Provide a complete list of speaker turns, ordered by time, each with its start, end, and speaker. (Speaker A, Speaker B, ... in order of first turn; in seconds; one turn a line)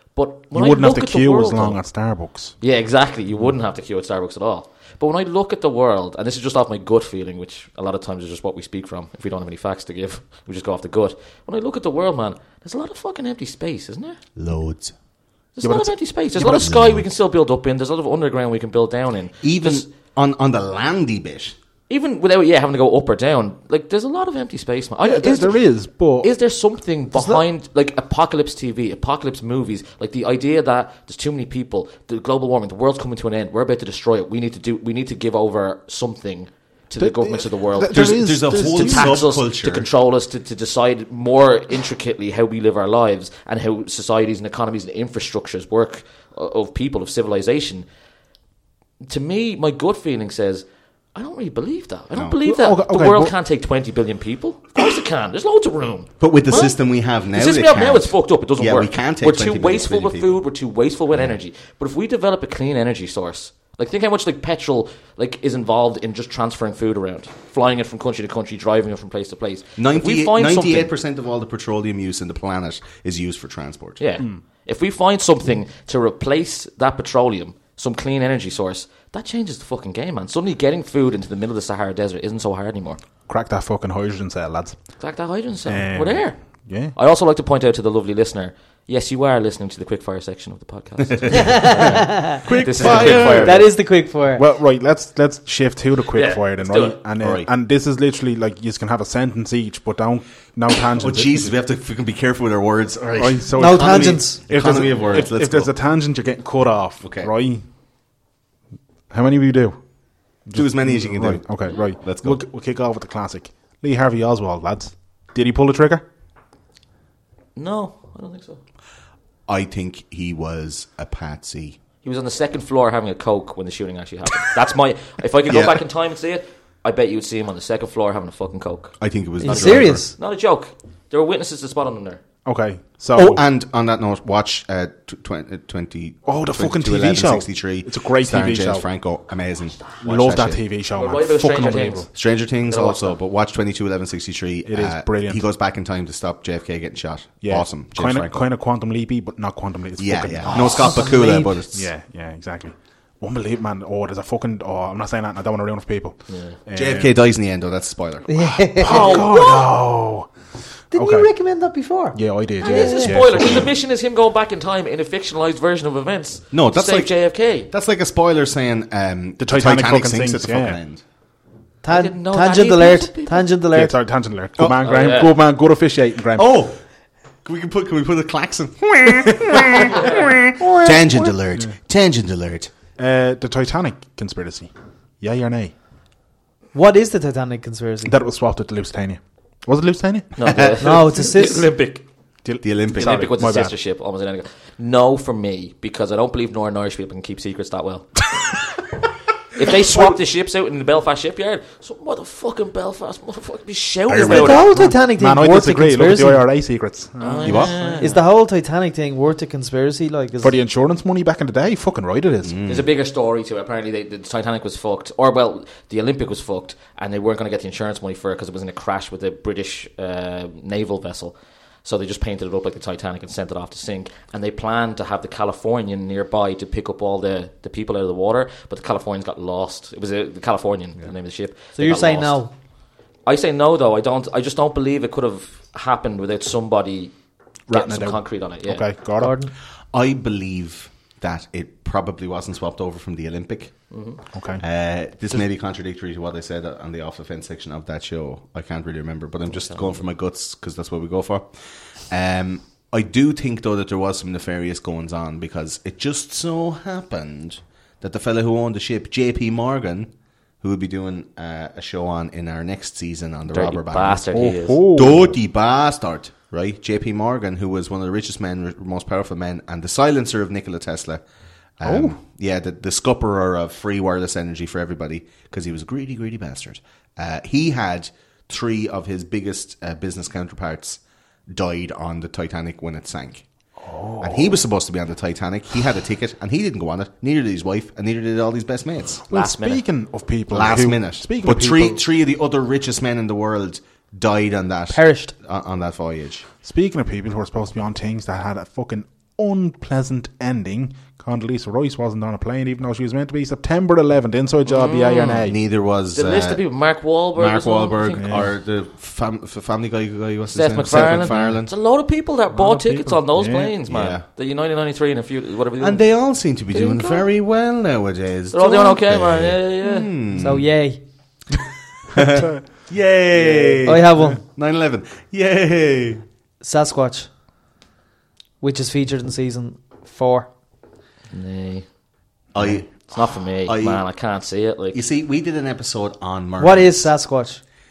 Speaker A: 0.1-1.8
Speaker B: 0.5-2.5
Speaker A: 2.6-14.2
Speaker C: 14.3-14.9
Speaker A: 15.6-19.9
Speaker B: 15.6-16.7
Speaker C: 16.6-17.0
Speaker C: 19.4-21.6
Speaker A: 21.9-47.8
Speaker B: 25.0-26.3
Speaker D: 27.1-27.4
Speaker B: 37.0-39.3
Speaker C: 37.9-39.9
Speaker A: 49.0-70.9
Speaker B: 52.4-53.3
Speaker C: 56.2-60.3
Speaker C: 69.8-74.0
Speaker A: 74.0-83.0
Speaker B: 83.3-84.8
Speaker A: 85.0-93.7
Speaker B: 85.6-86.9
Speaker C: 91.1-91.5
Speaker D: 91.3-94.4
Speaker B: 91.7-92.3
Speaker C: 92.4-93.7
Speaker B: 92.8-93.3
Speaker B: 94.3-101.5
Speaker A: 96.1-97.0
Speaker C: 97.2-97.5
Speaker C: 100.9-105.7
Speaker B: 103.2-107.6
Speaker D: 103.5-104.4
Speaker C: 107.0-107.3
Speaker B: 109.1-109.8
Speaker B: 110.5-116.0
Speaker C: 110.5-112.4
Speaker A: 117.5-118.6
Speaker C: 119.5-121.8
Speaker A: 122.0-132.2
Speaker C: 125.5-125.8
Speaker C: 129.0-130.0
Speaker D: 129.4-130.2
Speaker B: 132.4-133.4
Speaker C: 133.2-140.6
Speaker B: 136.2-138.9
Speaker B: 140.0-142.1
Speaker A: 140.9-143.2
Speaker C: 142.1-148.5
Speaker B: 144.7-145.4
Speaker B: 147.4-151.2
Speaker C: 150.0-151.8
Speaker D: 150.5-151.6
Speaker B: 151.7-157.1
Speaker A: 156.3-156.6
Speaker C: 156.7-158.3
Speaker D: 158.3-159.3
Speaker B: 158.4-160.3
Speaker A: 158.8-159.7
Speaker B: 160.9-161.3
Speaker D: 160.9-163.3
Speaker B: 162.1-163.6
Speaker A: 162.6-167.7
Speaker C: 166.5-171.0
Speaker B: 169.4-170.8
Speaker D: 171.8-173.9
Speaker A: 171.9-173.5
Speaker B: 173.7-176.6
Speaker C: 174.6-174.8
Speaker A: 174.8-175.3
Speaker C: 176.3-176.8
Speaker C: 177.4-182.7
Speaker D: 180.6-181.3
Speaker B: 183.0-185.7
Speaker D: 186.7-188.1
Speaker B: 188.1-190.5
Speaker A: 190.4-192.0
Speaker C: 190.5-190.8
Speaker D: 190.8-191.7
Speaker B: 192.4-193.7
Speaker C: 192.6-193.3
Speaker A: 192.9-198.6
Speaker A: 199.5-204.7
Speaker B: 204.1-208.2
Speaker D: 204.2-206.5
Speaker A: 207.2-208.2
Speaker C: 207.4-207.7
Speaker D: 208.0-210.6
Speaker B: 210.4-212.6
Speaker C: 212.4-212.9
Speaker A: 212.7-232.4
Speaker D: 231.8-232.5
Speaker A: 233.2-237.1
Speaker B: 237.7-239.3
Speaker A: 237.7-238.8
Speaker D: 239.2-239.5
Speaker C: 239.9-243.9
Speaker A: 243.9-244.2
Speaker B: 244.3-244.6
Speaker C: 244.6-271.2
Speaker A: 249.5-250.0
Speaker A: 263.5-264.8
Speaker B: 264.3-265.4
Speaker C: 271.8-283.4
Speaker B: 271.8-272.2
Speaker B: 283.8-284.6
Speaker C: 284.2-289.2
Speaker A: 289.3-289.8
Speaker B: 289.3-292.0
Speaker C: 290.5-296.5
Speaker D: 294.9-295.3
Speaker B: 296.6-305.6
Speaker A: 304.6-305.4
Speaker C: 305.5-306.6
Speaker A: 306.1-308.5
Speaker C: 307.4-311.7
Speaker B: 308.2-308.5
Speaker A: 310.5-316.1
Speaker B: 310.9-311.6
Speaker B: 312.5-313.7
Speaker C: 313.9-314.2
Speaker C: 315.8-320.6
Speaker A: 316.7-317.2
Speaker A: 318.5-320.1
Speaker D: 320.3-321.0
Speaker C: 322.1-326.2
Speaker D: 323.8-324.4
Speaker D: 326.6-327.3
Speaker D: 328.6-330.5
Speaker A: 331.3-331.9
Speaker C: 332.5-333.1
Speaker A: 333.1-335.0
Speaker C: 333.6-334.0
Speaker C: 334.9-337.1
Speaker D: 336.6-337.6